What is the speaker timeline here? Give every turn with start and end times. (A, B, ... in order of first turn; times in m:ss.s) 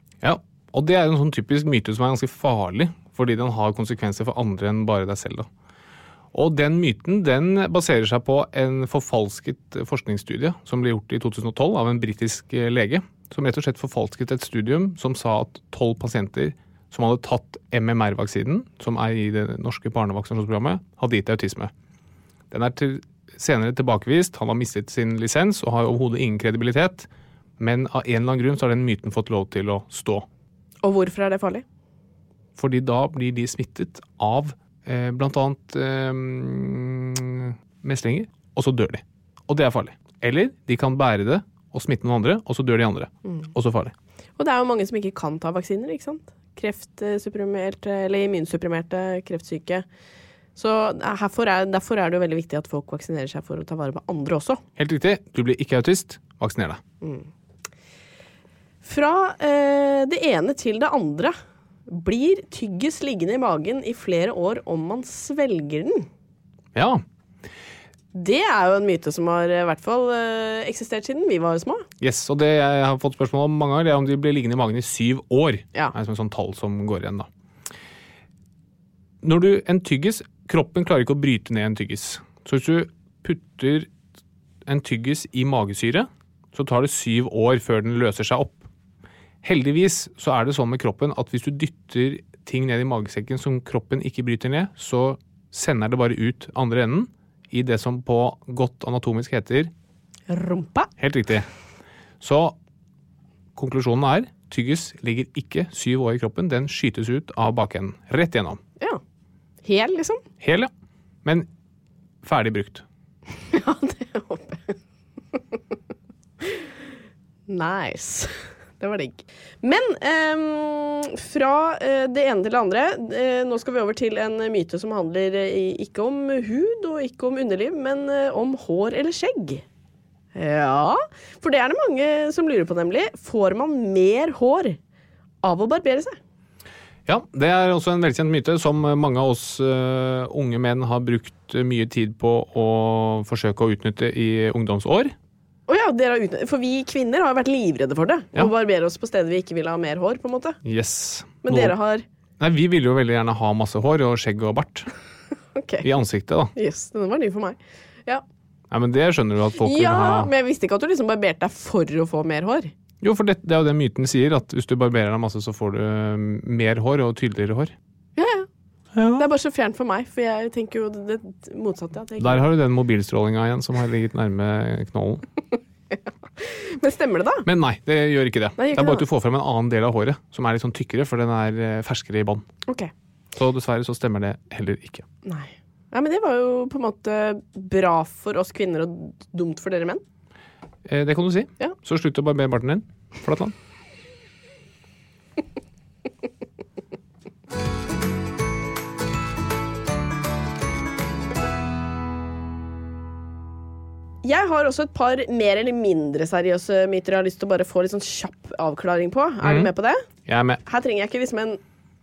0:00.2-0:05.5 A
0:06.3-0:21.7 A
0:22.5-0:27.1 A
0:27.6-0:30.3 A
0:30.8-0:31.6 B
0:32.6-0:43.9 A
0:44.4-0:49.9 B
0:50.6-0:54.6 B
0:54.8-0:56.8 A
0:57.0-0:57.3 B
0:58.8-1:01.4 B
1:01.9-1:06.1 B
1:06.8-1:07.0 A
1:08.1-1:11.9 B
1:12.0-1:17.3 A
1:19.2-1:23.9 A
1:24.7-1:28.7 A
1:29.4-1:39.7 A
1:40.3-1:40.9 B
1:41.0-1:41.5 A
1:42.2-1:42.6 A
1:43.6-1:48.6 A
1:49.6-1:50.2 B
1:50.4-1:50.7 A
1:52.2-1:52.8 A
1:53.5-1:54.8 B
1:57.5-2:09.6 B
2:10.4-2:14.8 B
2:15.4-2:16.2 B
2:17.1-2:25.2 A
2:25.7-2:30.6 B
2:30.6-2:31.8 A
2:31.4-2:32.0 B
2:32.4-2:34.9 A
2:35.6-2:35.9 B
2:35.8-2:36.5 A
2:36.6-2:38.2 B
2:38.7-2:40.3 A
2:39.6-2:42.7 B
2:43.0-2:47.7 A
2:48.2-2:48.5 B
2:48.9-2:49.3 A
2:49.2-2:52.4 B
2:52.2-2:55.3 A
2:55.9-2:57.5 B
2:57.4-3:02.5 A
2:58.6-2:59.1 B
3:02.7-3:02.9 B
3:03.3-3:05.1 A
3:05.2-3:10.0 B
3:10.9-3:13.6 A
3:24.2-3:30.0 B
3:29.4-3:29.7 A
3:30.3-3:30.6 A
3:30.7-3:31.6 B